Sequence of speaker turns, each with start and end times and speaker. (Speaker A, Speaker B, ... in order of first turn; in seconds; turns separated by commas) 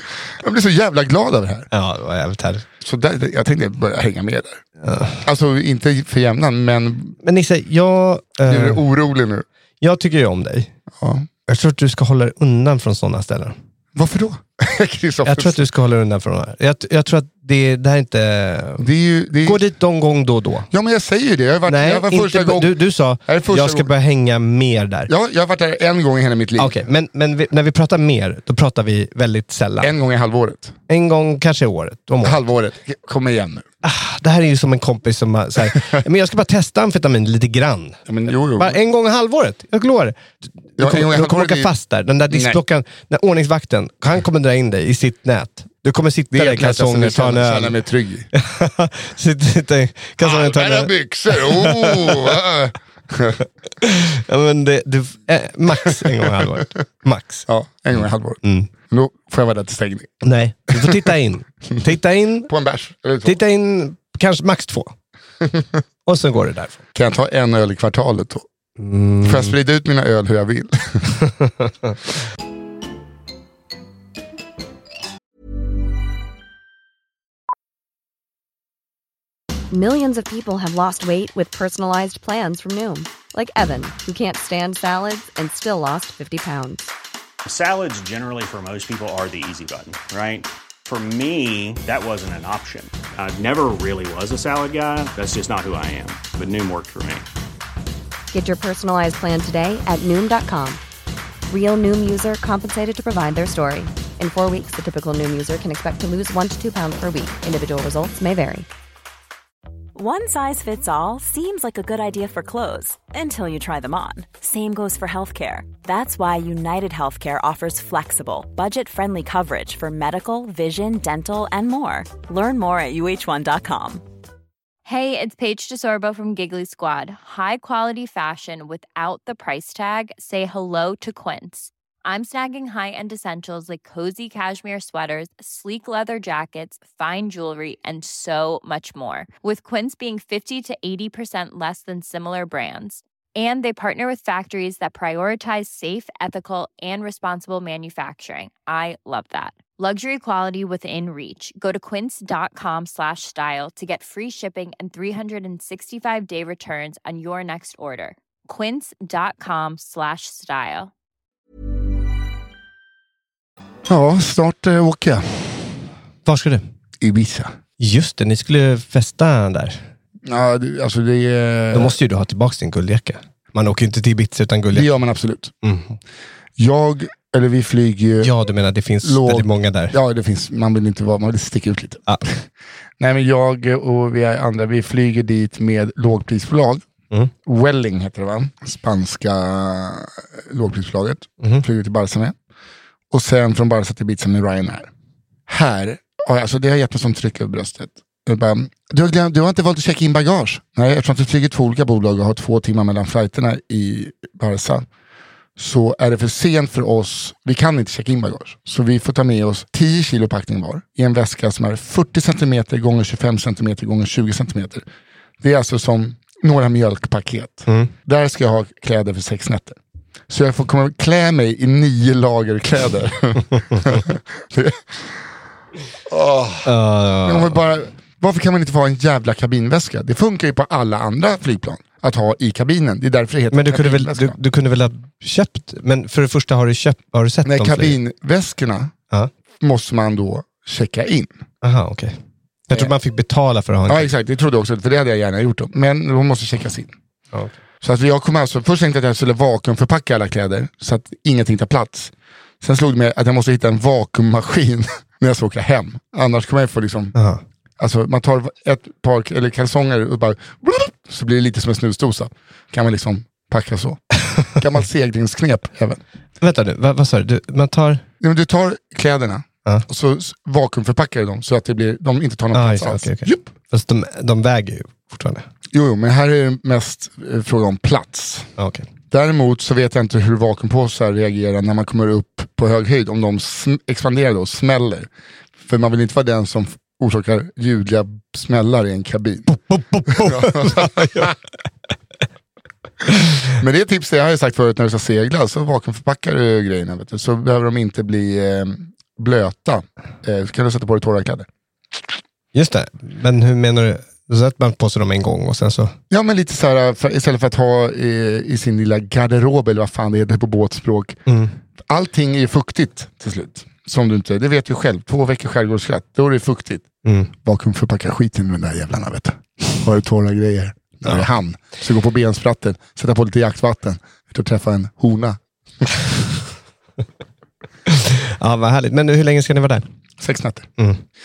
Speaker A: 0.4-1.7, Speaker B: 1.7-2.6, Speaker A: 2.8-4.6, Speaker B: 4.8-5.2, Speaker A: 5.2-7.2, Speaker B: 7.2-8.8, Speaker A: 8.4-9.4, Speaker B: 9.8-10.7, Speaker A: 11.0-11.3, Speaker B: 11.5-13.6, Speaker A: 13.9-15.6, Speaker B: 15.2-18.9, Speaker A: 18.8-19.6, Speaker B: 19.4-20.7, Speaker A: 20.7-23.9, Speaker B: 21.6-25.1, Speaker A: 25.1-26.7, Speaker B: 26.6-29.9, Speaker A: 29.8-30.7, Speaker B: 30.9-32.4, Speaker A: 32.2-33.6, Speaker B: 33.8-38.0, Speaker A: 38.1-38.8, Speaker B: 38.6-47.8, Speaker A: 40.8-41.7, Speaker A: 42.3-42.6, Speaker A: 46.3-48.3, Speaker B: 48.3-52.4, Speaker A: 50.2-53.4, Speaker B: 53.8-57.5, Speaker A: 55.8-56.6, Speaker A: 57.5-61.1, Speaker B: 58.4-58.7, Speaker B: 60.2-62.5, Speaker A: 62.5-63.4, Speaker B: 63.2-64.9, Speaker A: 65.4-65.7, Speaker B: 66.0-66.8, Speaker A: 66.9-68.5, Speaker B: 68.8-69.5, Speaker A: 69.2-71.2, Speaker C: 79.7-86.9, Speaker D: 87.5-97.2, Speaker C: 98.3-100.8, Speaker C: 101.5-108.7, Speaker E: 109.9-124.0, Speaker F: 124.8-160.9, Speaker A: 163.8-165.8, Speaker B: 166.2-166.6, Speaker A: 167.0-167.5, Speaker B: 167.8-169.8, Speaker A: 170.2-172.0, Speaker B: 171.7-174.9, Speaker A: 174.7-175.5, Speaker B: 175.6-176.0, Speaker A: 176.6-178.3, Speaker B: 178.2-180.0, Speaker A: 179.0-182.4, Speaker A: 183.0-186.8, Speaker A: 187.4-192.3, Speaker A: 193.1-194.9, Speaker A: 195.5-204.9, Speaker A: 205.6-214.8, Speaker A: 215.4-219.8, Speaker B: 217.7-217.9, Speaker A: 220.3-225.2, Speaker A: 226.1-226.7, Speaker B: 226.6-227.6, Speaker A: 227.2-234.3, Speaker B: 233.5-238.0, Speaker A: 237.4-238.9, Speaker A: 239.6-241.3, Speaker B: 241.6-242.1, Speaker B: 242.7-244.1, Speaker A: 243.9-246.9, Speaker A: 247.8-257.1, Speaker B: 257.1-257.4, Speaker A: 257.8-266.0, Speaker B: 266.4-268.0, Speaker A: 268.2-273.5, Speaker B: 272.5-275.5, Speaker A: 275.7-278.5, Speaker B: 278.6-278.9, Speaker A: 279.1-285.1, Speaker A: 285.6-289.5, Speaker B: 289.5-291.3, Speaker A: 290.1-291.3, Speaker A: 293.5-301.5, Speaker B: 302.5-305.9, Speaker A: 306.1-311.2, Speaker B: 311.3-311.5, Speaker A: 311.9-316.9, Speaker B: 317.0-317.3, Speaker A: 317.4-326.2, Speaker B: 327.9-329.8, Speaker A: 330.2-330.7